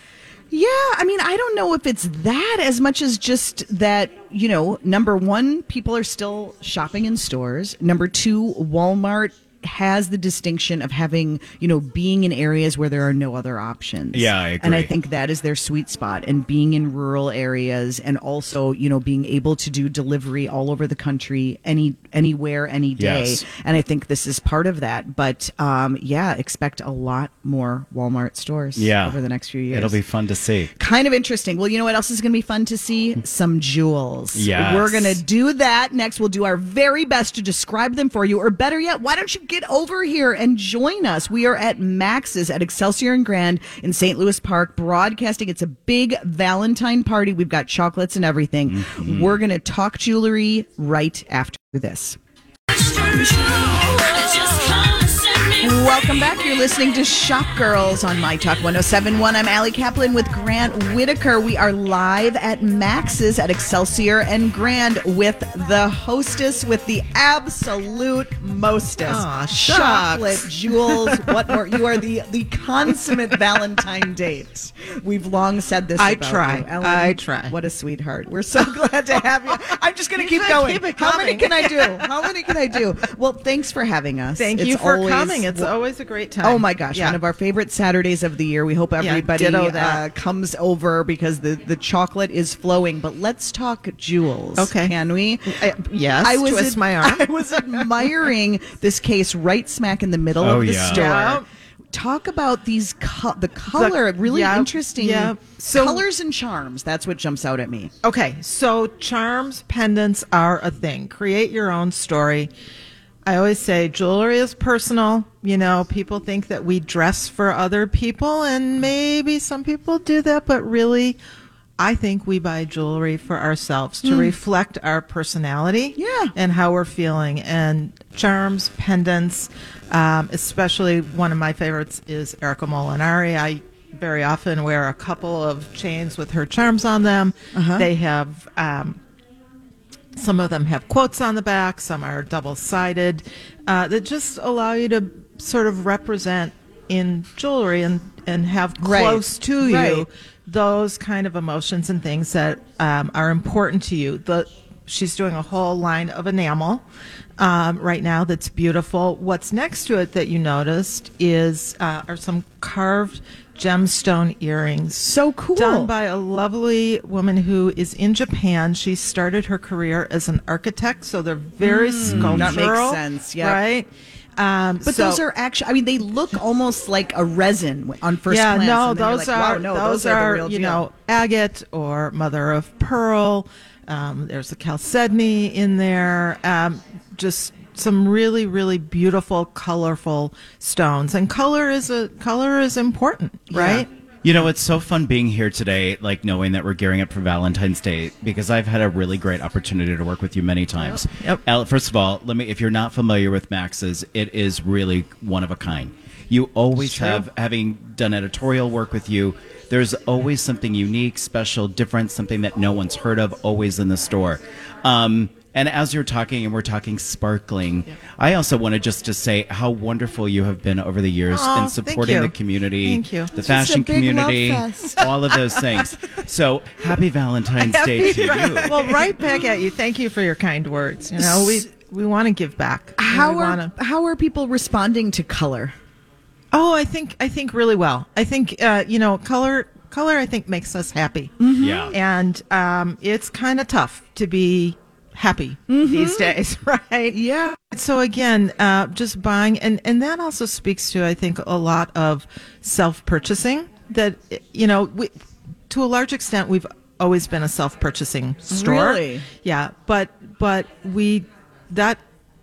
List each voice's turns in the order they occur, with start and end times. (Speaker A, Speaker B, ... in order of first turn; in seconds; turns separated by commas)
Speaker A: 0.5-30.0, Speaker B: 14.1-14.9, Speaker B: 23.0-23.4, Speaker B: 28.7-29.2, Speaker B: 29.7-30.7, Speaker A: 30.8-52.2, Speaker B: 34.3-35.2, Speaker B: 48.7-49.4, Speaker A: 53.1-54.7, Speaker A: 55.5-85.7, Speaker C: 69.0-71.7, Speaker C: 76.0-77.5, Speaker C: 80.2-82.3, Speaker C: 84.3-87.2, Speaker A: 86.4-107.9, Speaker C: 89.0-90.0, Speaker C: 94.6-94.9, Speaker C: 95.5-98.3, Speaker B: 100.4-101.1, Speaker C: 100.8-101.5, Speaker C: 103.7-106.0, Speaker C: 108.0-112.5, Speaker C: 113.2-121.2, Speaker C: 121.8-139.0, Speaker A: 124.0-124.3, Speaker A: 126.0-126.3, Speaker A: 137.5-137.9, Speaker C: 140.2-156.8, Speaker A: 148.8-150.1, Speaker C: 157.4-175.2, Speaker A: 165.0-165.9, Speaker A: 171.6-173.6, Speaker B: 172.0-172.6, Speaker A: 174.8-180.8, Speaker C: 178.3-193.9, Speaker A: 193.5-193.8, Speaker B: 194.2-228.9, Speaker C: 221.3-223.3, Speaker A: 223.4-225.7, Speaker A: 227.9-229.3, Speaker C: 227.9-233.7, Speaker A: 231.2-231.6, Speaker A: 233.0-235.7, Speaker C: 236.5-241.3, Speaker A: 241.4-241.9, Speaker B: 241.6-241.9, Speaker C: 241.9-247.2, Speaker A: 245.7-246.3, Speaker A: 247.1-247.6, Speaker C: 247.7-255.1, Speaker C: 255.7-262.0, Speaker A: 258.5-259.2